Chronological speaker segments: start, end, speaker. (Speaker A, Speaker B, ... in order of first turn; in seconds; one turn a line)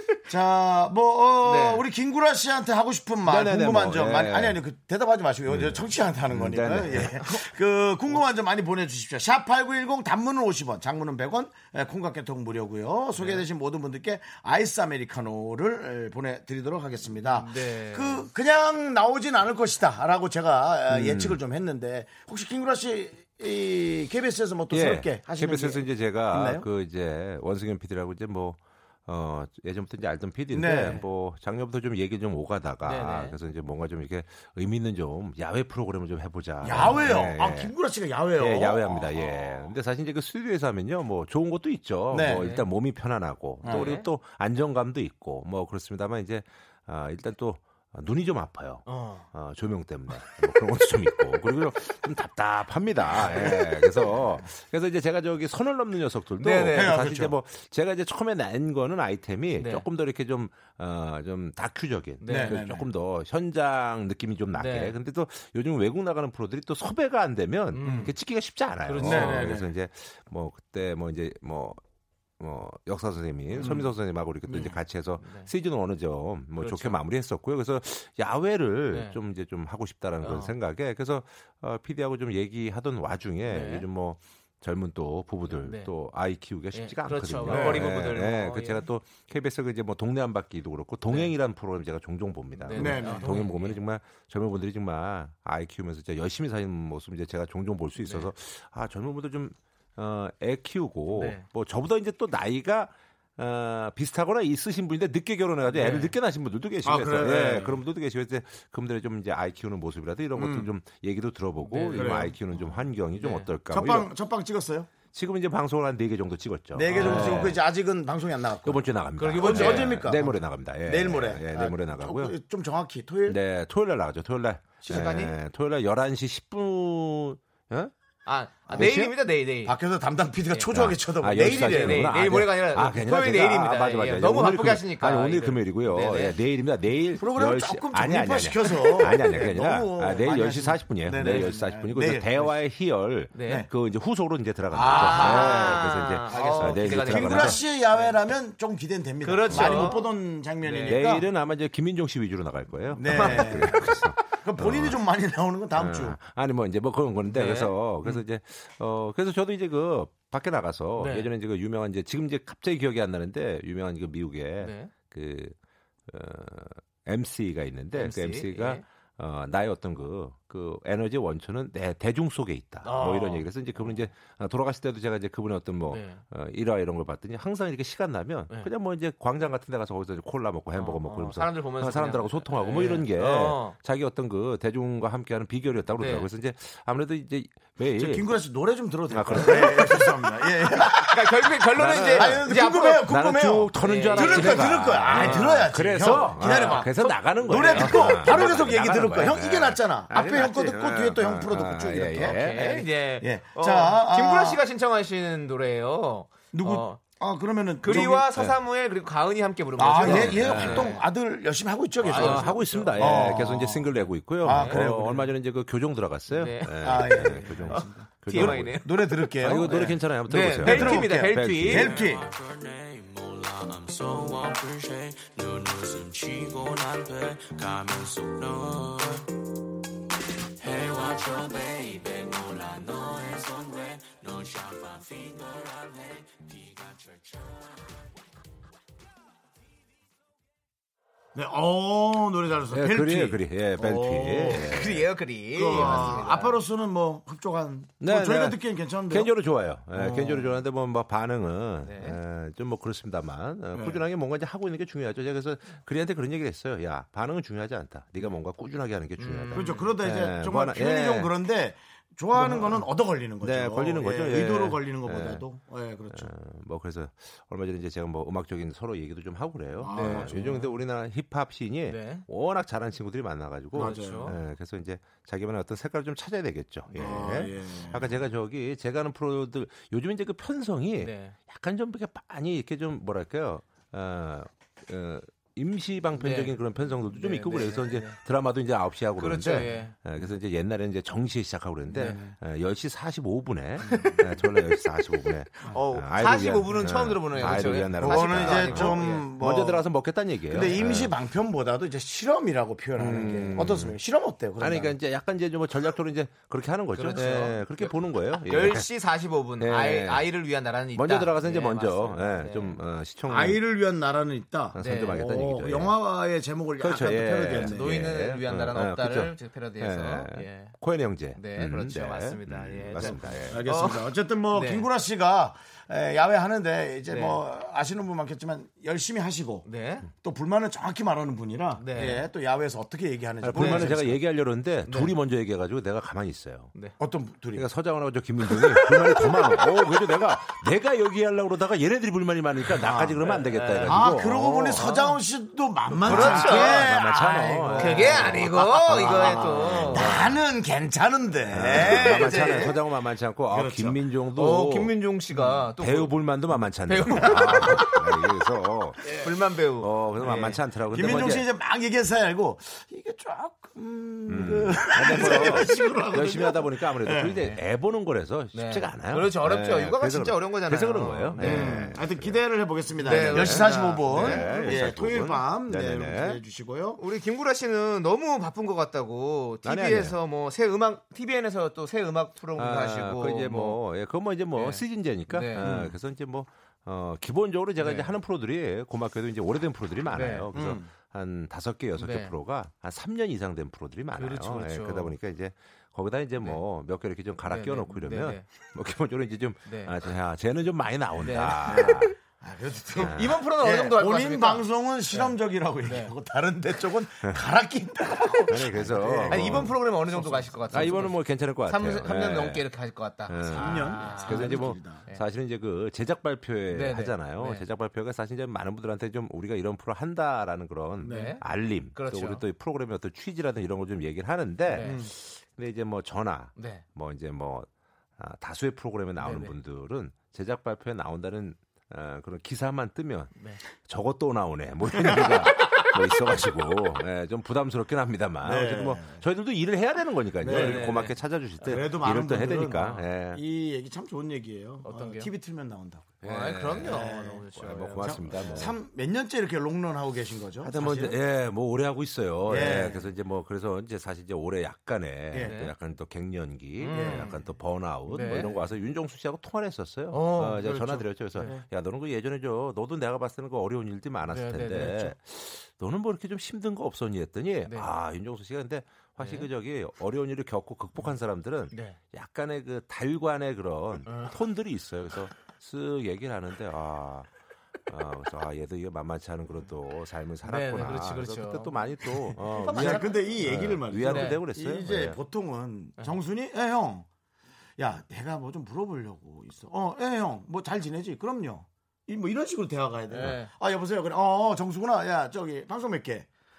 Speaker A: 0.3-26.7
Speaker B: 1.4-1.8
Speaker C: 3.2-4.6
Speaker C: 5.5-7.4
Speaker B: 13.2-13.4
Speaker B: 17.2-18.3
Speaker C: 20.9-21.4
Speaker C: 24.7-37.7
Speaker A: 30.5-31.0
Speaker B: 30.6-31.0
Speaker B: 32.8-33.4
Speaker A: 36.6-39.3
Speaker B: 36.7-37.0
Speaker C: 38.4-71.8
Speaker A: 42.1-42.5
Speaker B: 42.2-42.6
Speaker A: 43.6-43.9
Speaker B: 43.7-44.1
Speaker B: 48.9-49.3
Speaker B: 53.2-53.5
Speaker A: 53.2-54.2
Speaker B: 56.4-57.0
Speaker A: 56.7-57.4
Speaker B: 59.6-59.8
Speaker B: 62.2-62.6
Speaker A: 62.3-62.9
Speaker B: 64.6-65.0
Speaker B: 67.7-68.1
Speaker A: 67.8-68.1
Speaker B: 68.9-69.6
Speaker A: 69.0-69.7
Speaker C: 72.4-114.1
Speaker A: 73.6-73.9
Speaker B: 73.6-73.8
Speaker A: 74.5-74.8
Speaker B: 75.2-75.5
Speaker B: 76.6-77.0
Speaker B: 78.9-79.2
Speaker B: 80.2-80.5
Speaker B: 83.5-83.9
Speaker B: 85.6-85.9
Speaker B: 86.7-88.9
Speaker A: 87.5-87.9
Speaker B: 91.1-91.3
Speaker B: 92.6-93.8
Speaker A: 92.7-93.4
Speaker B: 98.0-98.3
Speaker B: 101.1-101.5
Speaker B: 105.7-106.2
Speaker A: 106.8-107.8
Speaker A: 110.3-110.8
Speaker B: 111.6-113.5
Speaker A: 111.9-112.4
Speaker A: 113.7-114.9
Speaker C: 115.1-117.6
Speaker A: 116.7-123.4
Speaker B: 116.9-117.6
Speaker C: 118.7-122.3
Speaker B: 119.2-120.0
Speaker C: 123.3-127.9
Speaker B: 124.8-125.3
Speaker B: 128.2-129.8
Speaker C: 128.7-129.2
Speaker A: 129.6-132.2
Speaker C: 130.7-147.6
Speaker B: 131.3-136.4
Speaker A: 137.2-142.5
Speaker B: 139.2-139.5
Speaker B: 143.3-143.7
Speaker A: 144.7-151.3
Speaker B: 144.8-148.1
Speaker B: 149.2-151.0
Speaker C: 149.5-150.0
Speaker C: 150.8-155.0
Speaker A: 152.9-156.2
Speaker B: 153.1-153.8
Speaker C: 155.8-165.6
Speaker B: 157.3-158.2
Speaker B: 161.0-161.3
Speaker B: 164.6-164.9
Speaker C: 166.1-188.3
Speaker B: 167.9-168.8
Speaker B: 172.8-174.1
Speaker B: 175.9-176.2
Speaker B: 180.8-183.8
Speaker B: 186.0-186.3
Speaker A: 188.0-191.2
Speaker C: 189.1-190.1
Speaker B: 189.3-189.7
Speaker B: 191.0-193.1
Speaker C: 191.7-202.9
Speaker A: 192.1-204.6
Speaker B: 193.8-195.7
Speaker B: 196.4-198.5
Speaker B: 202.2-207.0
Speaker A: 206.5-208.3
Speaker B: 207.8-211.1
Speaker C: 207.9-208.6
Speaker A: 209.8-215.3
Speaker C: 210.0-211.0
Speaker B: 212.0-213.4
Speaker C: 212.0-222.0
Speaker B: 214.5-214.9
Speaker B: 216.3-217.1
Speaker A: 216.8-220.0
Speaker B: 217.7-219.3
Speaker B: 220.3-222.1
Speaker A: 220.6-222.3
Speaker D: 221.9-229.3
Speaker D: 230.6-237.6
Speaker A: 241.3-244.8
Speaker C: 242.7-245.1
Speaker B: 244.5-246.6
Speaker A: 245.5-249.3
Speaker C: 245.7-246.1
Speaker C: 248.0-261.3
Speaker A: 249.9-250.6
Speaker B: 251.8-252.2
Speaker A: 253.7-254.0
Speaker B: 259.2-259.9
Speaker A: 259.5-266.3
Speaker C: 262.4-262.9
Speaker C: 263.4-265.4
Speaker C: 266.1-301.1
Speaker A: 269.8-270.6
Speaker B: 269.9-270.7
Speaker B: 271.9-272.2
Speaker B: 273.7-274.4
Speaker A: 273.7-274.4
Speaker A: 277.0-278.2
Speaker B: 281.0-281.4
Speaker B: 286.2-286.6
Speaker B: 287.1-288.2
Speaker B: 289.2-289.9
Speaker A: 291.9-292.3
Speaker B: 293.9-294.2
Speaker B: 295.7-299.3
Speaker A: 298.0-299.9
Speaker A: 300.5-305.0
Speaker C: 303.0-304.0
Speaker C: 304.6-308.9
Speaker B: 306.9-312.8
Speaker C: 309.6-310.3
Speaker C: 310.9-313.6
Speaker A: 313.3-318.0
Speaker C: 314.8-315.9
Speaker B: 314.8-315.2
Speaker C: 316.8-323.6
Speaker B: 317.6-320.7
Speaker B: 321.4-324.9
Speaker A: 323.0-334.2
Speaker B: 327.1-327.4
Speaker B: 329.7-330.1
Speaker B: 331.8-332.3
Speaker C: 333.4-336.7
Speaker B: 333.6-333.9
Speaker B: 334.9-335.1
Speaker A: 337.0-337.7
Speaker C: 337.6-344.9
Speaker B: 342.9-344.0
Speaker A: 343.8-352.8
Speaker B: 344.8-345.2
Speaker C: 346.0-350.4
Speaker B: 346.1-346.9
Speaker B: 347.7-350.2
Speaker C: 351.5-355.0
Speaker B: 351.7-352.7
Speaker A: 353.5-354.0
Speaker B: 354.4-356.2
Speaker C: 355.8-359.1
Speaker B: 356.9-357.9
Speaker A: 357.2-357.6
Speaker B: 359.1-360.6
Speaker C: 359.8-361.4
Speaker A: 360.9-367.5
Speaker C: 364.3-372.4
Speaker B: 365.2-365.6
Speaker B: 368.5-371.8
Speaker A: 371.4-377.0
Speaker C: 373.0-376.4
Speaker B: 373.0-374.9
Speaker B: 377.0-383.8
Speaker C: 379.6-380.2
Speaker C: 382.6-402.2
Speaker B: 384.5-385.7
Speaker A: 385.6-386.0
Speaker B: 387.8-388.1
Speaker B: 390.1-390.5
Speaker A: 390.5-390.9
Speaker B: 392.0-392.3
Speaker B: 394.1-395.1
Speaker B: 397.5-398.4
Speaker B: 399.7-399.9
Speaker B: 401.2-402.1
Speaker A: 401.7-410.9
Speaker C: 403.0-403.4
Speaker B: 403.0-406.1
Speaker C: 408.5-409.8
Speaker B: 409.3-415.2
Speaker C: 410.7-412.7
Speaker C: 413.3-443.4
Speaker A: 413.5-415.0
Speaker B: 416.7-417.6
Speaker A: 421.0-421.4
Speaker B: 421.0-421.4
Speaker B: 421.9-422.4
Speaker B: 424.7-425.0
Speaker A: 424.8-425.1
Speaker B: 426.6-426.8
Speaker B: 429.2-429.5
Speaker B: 433.4-433.6
Speaker A: 435.0-435.4
Speaker A: 438.4-439.2
Speaker A: 440.4-441.0
Speaker B: 440.4-441.8
Speaker A: 441.6-446.2
Speaker B: 444.8-445.3
Speaker C: 446.2-448.8
Speaker B: 446.2-448.7
Speaker A: 446.8-451.2
Speaker C: 450.6-477.3
Speaker A: 452.5-453.1
Speaker A: 455.3-455.6
Speaker B: 455.4-455.7
Speaker B: 456.8-457.4
Speaker A: 456.9-457.4
Speaker B: 458.1-458.6
Speaker B: 460.1-461.6
Speaker B: 464.3-465.1
Speaker B: 469.2-469.5
Speaker B: 471.7-472.0
Speaker B: 474.1-474.3
Speaker C: 477.9-485.2
Speaker B: 480.4-483.3
Speaker A: 482.6-487.1
Speaker B: 484.1-484.4
Speaker A: 487.8-496.3
Speaker B: 493.1-493.5